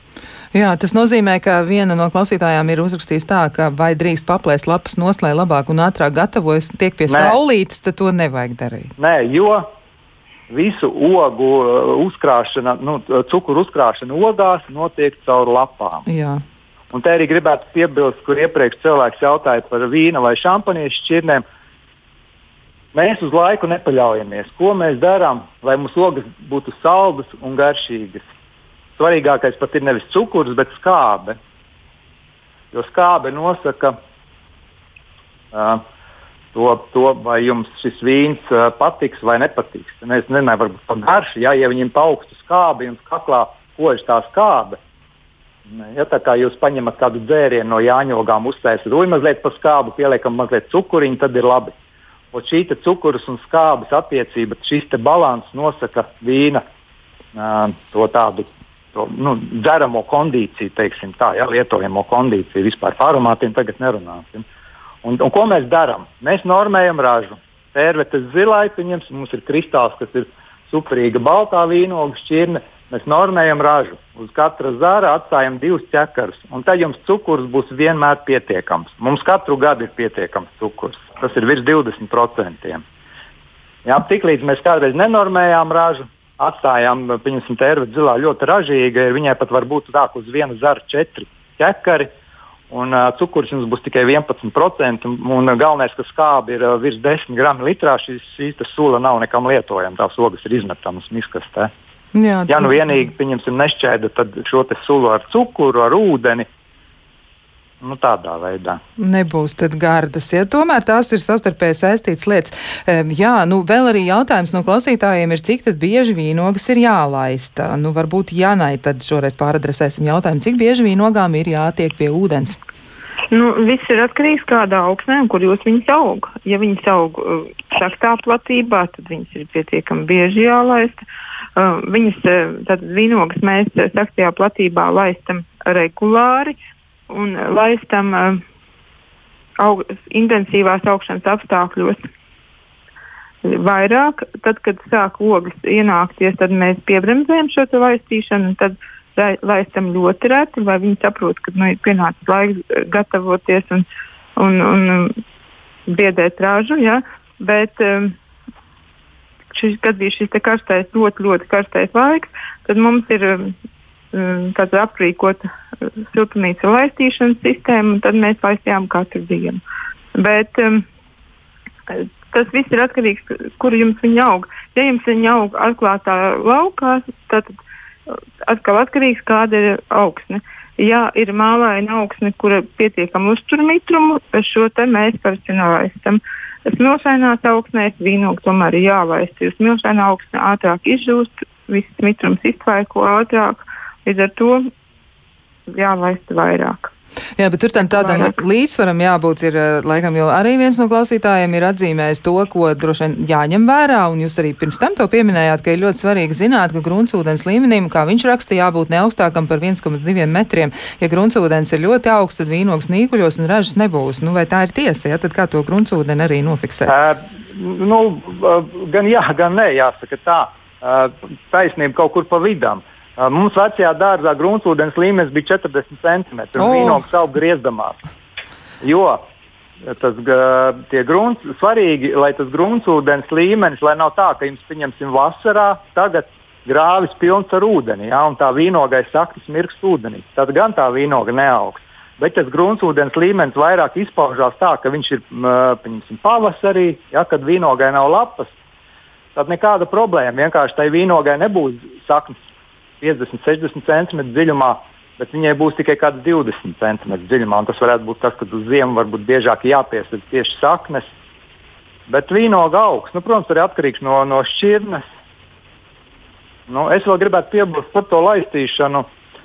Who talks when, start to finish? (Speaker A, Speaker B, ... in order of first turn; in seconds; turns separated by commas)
Speaker A: 0.5-8.9, Speaker B: 7.1-7.4, Speaker B: 9.0-9.7, Speaker B: 10.5-16.1, Speaker A: 16.1-16.4, Speaker B: 16.9-21.4, Speaker B: 22.9-28.2, Speaker B: 29.0-31.4, Speaker B: 32.7-34.0, Speaker B: 35.5-35.8, Speaker B: 36.5-44.8, Speaker B: 45.7-51.7, Speaker B: 52.3-56.6, Speaker B: 57.3-64.4, Speaker B: 65.0-82.8, Speaker B: 83.8-92.1, Speaker B: 92.7-101.7, Speaker A: 102.1-103.0, Speaker B: 102.5-106.5, Speaker B: 107.8-108.8, Speaker A: 109.0-122.6, Speaker C: 123.3-131.0, Speaker C: 131.6-136.5, Speaker C: 137.1-138.4, Speaker C: 139.6-142.0, Speaker C: 143.4-153.8, Speaker C: 154.4-155.2, Speaker C: 155.9-158.1, Speaker C: 159.5-163.5, Speaker C: 164.1-165.5, Speaker C: 166.1-169.6, Speaker C: 170.1-170.8, Speaker C: 171.9-177.6, Speaker C: 178.1-194.7, Speaker C: 195.7-196.9, Speaker A: 197.4-216.9, Speaker C: 197.9-198.3, Speaker B: 216.8-228.0, Speaker A: 226.6-227.0, Speaker B: 228.8-229.2, Speaker B: 229.8-248.5, Speaker B: 249.3-252.4, Speaker B: 253.0-261.1, Speaker B: 262.1-265.0, Speaker B: 266.7-269.1